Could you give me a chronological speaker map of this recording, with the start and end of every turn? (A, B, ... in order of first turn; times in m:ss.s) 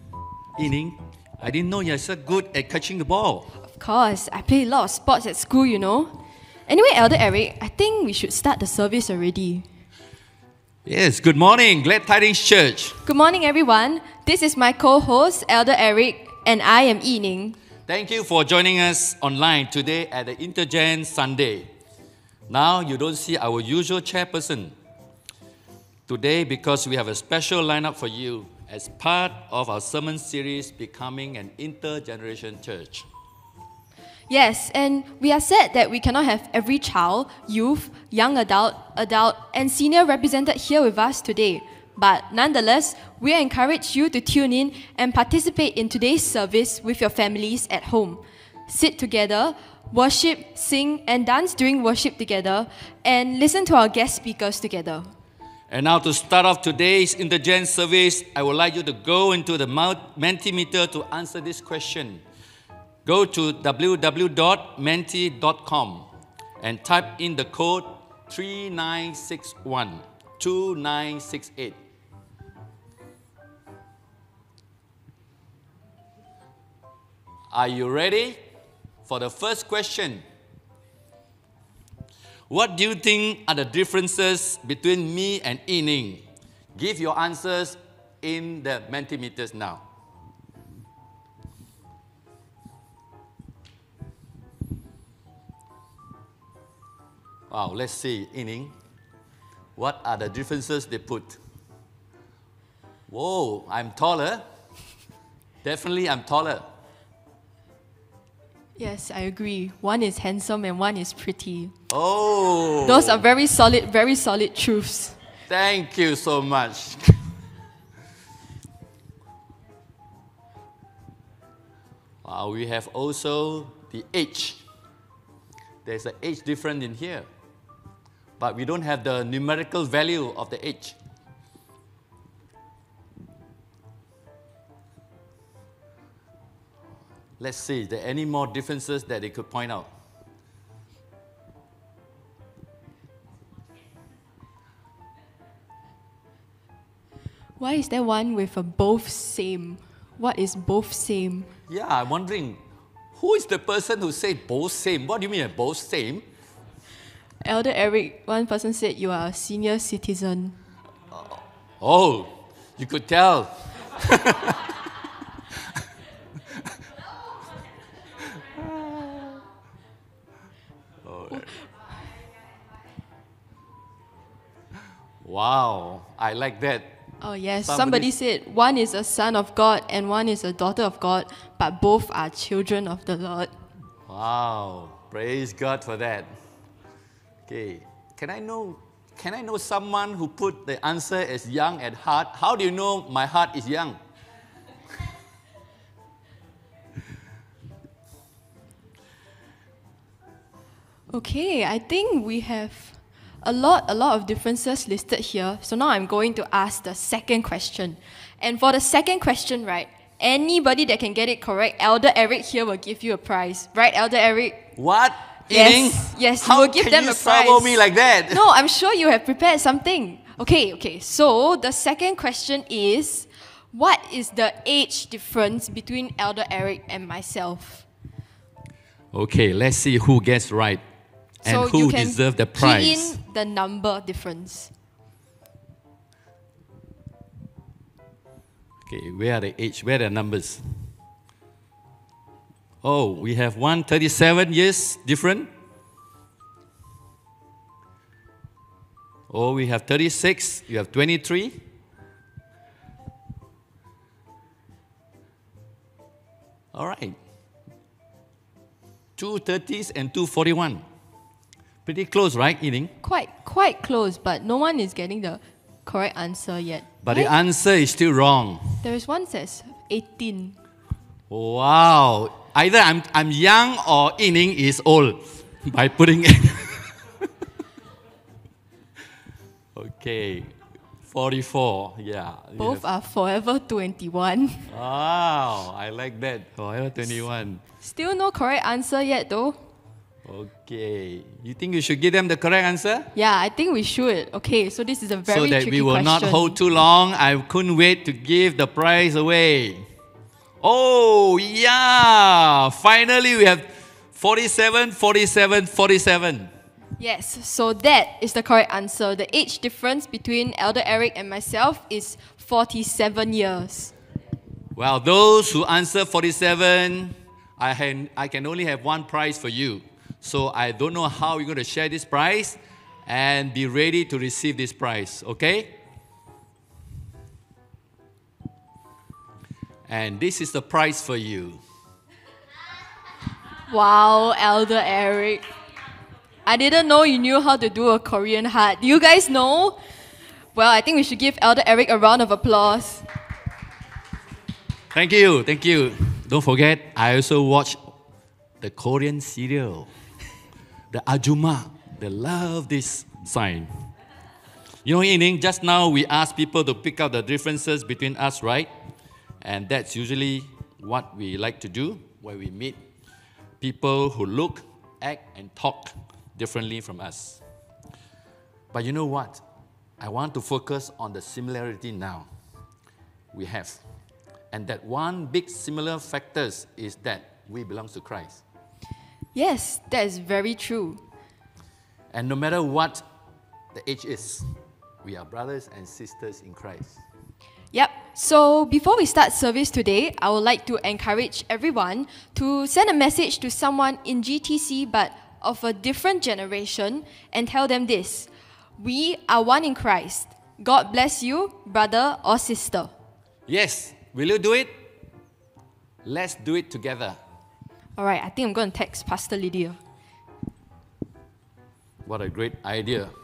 0:00.6-0:03.5 A
0:03.7-0:06.1 B
0:06.7-0:09.7 B
0:10.9-0:13.0 A
0:13.0-0:17.6 B
0:17.9-0:21.7 A
0:22.5-0:24.7 A
0:26.1-0:33.1 A
0:34.3-0:55.1 B
0:55.7-1:02.2 A
1:03.0-1:06.1 A
1:06.6-1:11.8 A
1:17.5-1:18.4 A
1:19.1-1:20.2 A
1:22.5-1:26.2 A
1:26.8-1:29.8 A
1:37.5-1:38.7 A
1:39.8-1:41.4 A
1:43.1-1:44.4 A
1:45.6-1:46.6 A
1:48.8-1:51.7 B
1:51.9-1:53.2 A
1:52.8-1:55.2 B
1:55.5-1:57.2 A
2:02.2-2:04.6 A
2:05.8-2:07.3 A
2:08.4-2:11.0 A
2:17.4-2:19.9 A
2:27.6-2:31.5 B
2:31.7-2:32.6 A
2:33.2-2:36.2 A
2:37.4-2:40.6 B
2:41.1-2:44.6 A
2:51.0-2:51.5 A
2:55.2-2:56.9 A
2:57.2-3:03.5 B
2:57.6-2:58.1 A
3:04.1-3:06.3 A
3:07.5-3:14.0 A
3:21.1-3:34.6 B
3:34.8-3:38.4 A
3:35.5-3:37.8 B
3:38.3-3:47.8 B
3:49.1-3:50.8 A
3:51.4-3:53.2 A
3:51.4-3:54.7 B
3:58.8-4:00.9 A
4:02.8-4:05.5 A
4:09.3-4:11.6 A
4:16.7-4:17.2 A
4:19.2-4:20.8 A
4:21.8-4:22.9 A
4:23.0-4:27.3 B
4:27.0-4:28.8 A
4:28.8-4:30.6 B
4:31.3-4:36.9 A
4:39.7-4:40.5 A
4:41.1-4:42.8 A
4:42.6-4:44.7 B
4:44.7-4:47.6 A
4:47.8-4:49.6 B
4:50.2-4:53.1 A
4:53.1-4:56.6 B
4:55.3-4:59.9 A
5:00.6-5:06.5 A
5:07.0-5:13.9 B
5:14.7-5:25.7 A
5:29.9-5:31.6 A
5:33.7-5:35.4 B
5:36.4-5:39.8 B
5:40.5-5:43.0 B
5:44.9-5:47.8 A
5:48.6-5:49.9 A
5:50.9-5:53.8 A
5:54.8-5:58.7 A
5:59.4-6:02.8 A
6:03.6-6:07.4 A
6:08.7-6:09.4 A
6:10.0-6:12.3 A
6:13.3-6:13.8 A
6:14.5-6:18.4 A
6:19.3-6:21.0 B
6:22.1-6:23.0 A
6:23.7-6:27.0 A
6:27.7-6:42.9 B
6:43.5-6:44.7 A
6:46.0-6:47.2 A
6:48.0-6:49.8 B
6:52.0-6:53.1 A